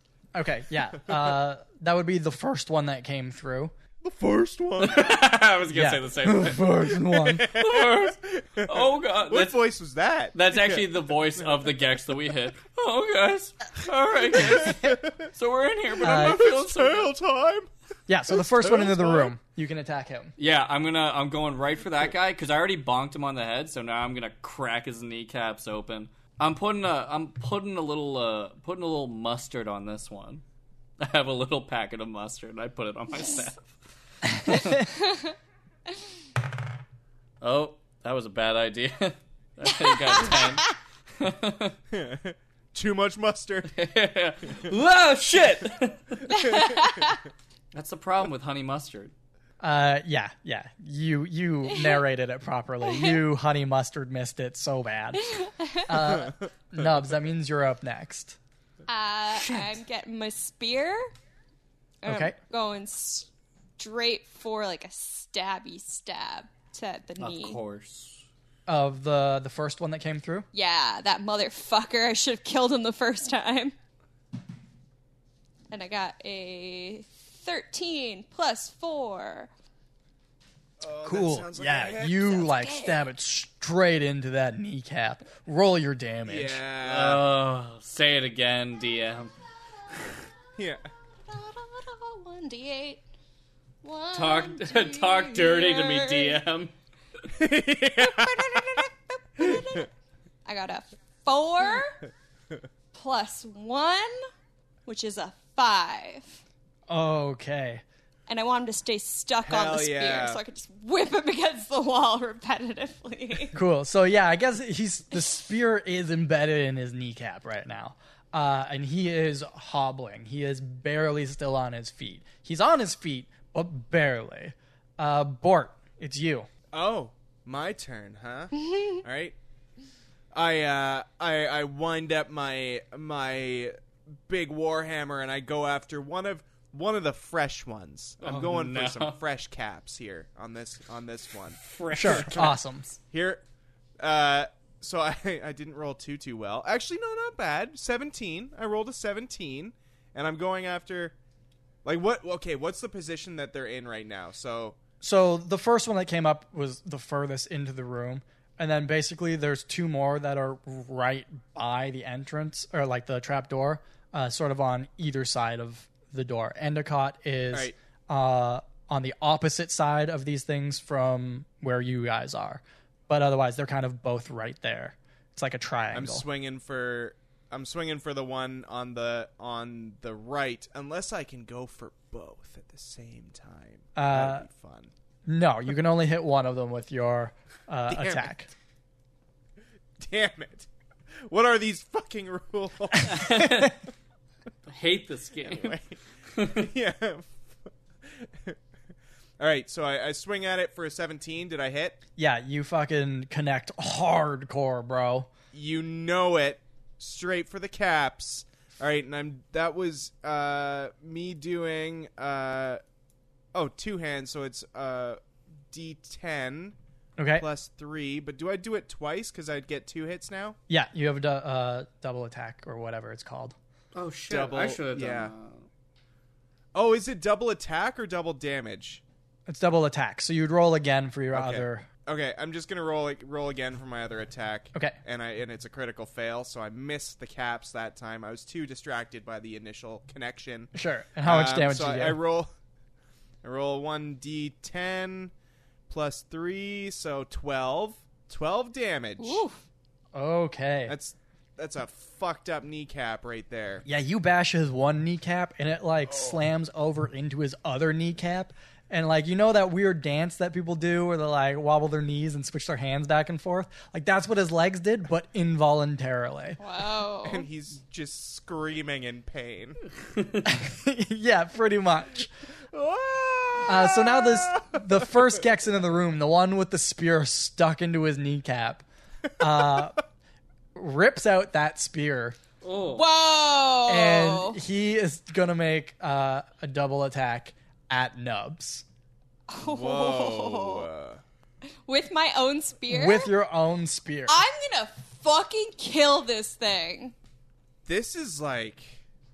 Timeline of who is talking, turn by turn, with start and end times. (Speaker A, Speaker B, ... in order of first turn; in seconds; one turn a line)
Speaker A: 0.3-3.7
Speaker B: 4.0-5.2
Speaker C: 4.8-9.6
Speaker A: 5.7-7.5
Speaker B: 7.2-11.4
Speaker C: 10.3-17.1
Speaker B: 14.4-15.2
Speaker B: 16.0-17.7
Speaker A: 16.0-16.4
Speaker A: 18.1-20.3
Speaker B: 18.4-19.3
Speaker C: 20.4-30.4
Speaker C: 31.0-33.8
Speaker C: 34.3-34.8
Speaker A: 34.5-34.7
Speaker D: 34.7-35.4
Speaker C: 37.4-41.8
Speaker D: 39.9-40.5
Speaker B: 41.9-43.7
Speaker C: 43.7-46.9
Speaker D: 46.3-47.2
Speaker C: 47.7-49.1
Speaker A: 49.6-55.2
Speaker D: 51.7-52.0
Speaker D: 52.8-53.2
Speaker D: 55.2-56.2
Speaker A: 55.9-58.4
Speaker D: 58.9-61.1
Speaker C: 59.3-59.8
Speaker D: 62.0-67.6
Speaker A: 62.1-62.4
Speaker C: 67.2-68.2
Speaker A: 68.7-70.5
Speaker D: 70.5-73.8
Speaker D: 75.7-79.5
Speaker B: 80.8-82.5
Speaker A: 81.0-86.6
Speaker D: 82.4-83.1
Speaker B: 86.2-87.2
Speaker C: 86.8-89.3
Speaker B: 90.6-90.9
Speaker D: 91.3-93.0
Speaker D: 93.8-96.4
Speaker C: 94.1-96.7
Speaker B: 97.3-98.8
Speaker D: 98.0-99.9
Speaker B: 99.4-99.7
Speaker D: 100.5-102.0
Speaker D: 102.9-104.2
Speaker D: 104.9-106.4
Speaker A: 106.9-107.8
Speaker D: 108.3-113.6
Speaker B: 109.4-110.4
Speaker A: 113.5-126.5
Speaker B: 126.7-129.4
Speaker D: 128.6-129.0
Speaker B: 130.3-142.5
Speaker C: 138.2-139.2
Speaker C: 141.6-142.6
Speaker A: 141.9-142.9
Speaker B: 143.1-143.4
Speaker B: 144.0-151.2
Speaker B: 151.8-154.8
Speaker A: 155.0-176.3
Speaker B: 175.9-184.9
Speaker A: 184.0-184.5
Speaker A: 185.3-188.5
Speaker B: 187.9-188.3
Speaker B: 190.0-190.7
Speaker B: 191.2-193.4
Speaker C: 193.1-193.8
Speaker A: 193.4-193.7
Speaker C: 194.7-195.8
Speaker B: 195.4-198.6
Speaker C: 196.3-196.7
Speaker B: 199.4-202.0
Speaker A: 202.2-205.3
Speaker B: 205.5-212.8
Speaker B: 213.5-215.2
Speaker B: 215.7-216.8
Speaker A: 217.2-217.5
Speaker B: 217.4-220.6
Speaker A: 220.7-223.6
Speaker C: 223.9-225.6
Speaker B: 224.3-225.3
Speaker B: 226.8-229.0
Speaker A: 229.5-231.9
Speaker B: 231.3-240.7
Speaker A: 240.7-242.2
Speaker B: 241.2-242.5
Speaker B: 243.4-245.3
Speaker B: 245.9-249.4
Speaker D: 249.2-249.6
Speaker A: 250.2-250.9
Speaker B: 250.9-253.8
Speaker A: 253.8-266.6
Speaker D: 266.6-267.5
Speaker B: 267.2-269.8
Speaker A: 270.4-272.3
Speaker B: 272.7-275.2
Speaker A: 273.7-278.9
Speaker A: 279.4-280.0
Speaker A: 280.8-282.4
Speaker C: 282.6-283.1
Speaker D: 282.9-284.6
Speaker A: 283.9-288.9
Speaker D: 289.5-290.9
Speaker B: 289.6-291.2
Speaker D: 291.9-293.3
Speaker A: 292.9-294.4
Speaker D: 294.3-297.1
Speaker B: 297.9-299.0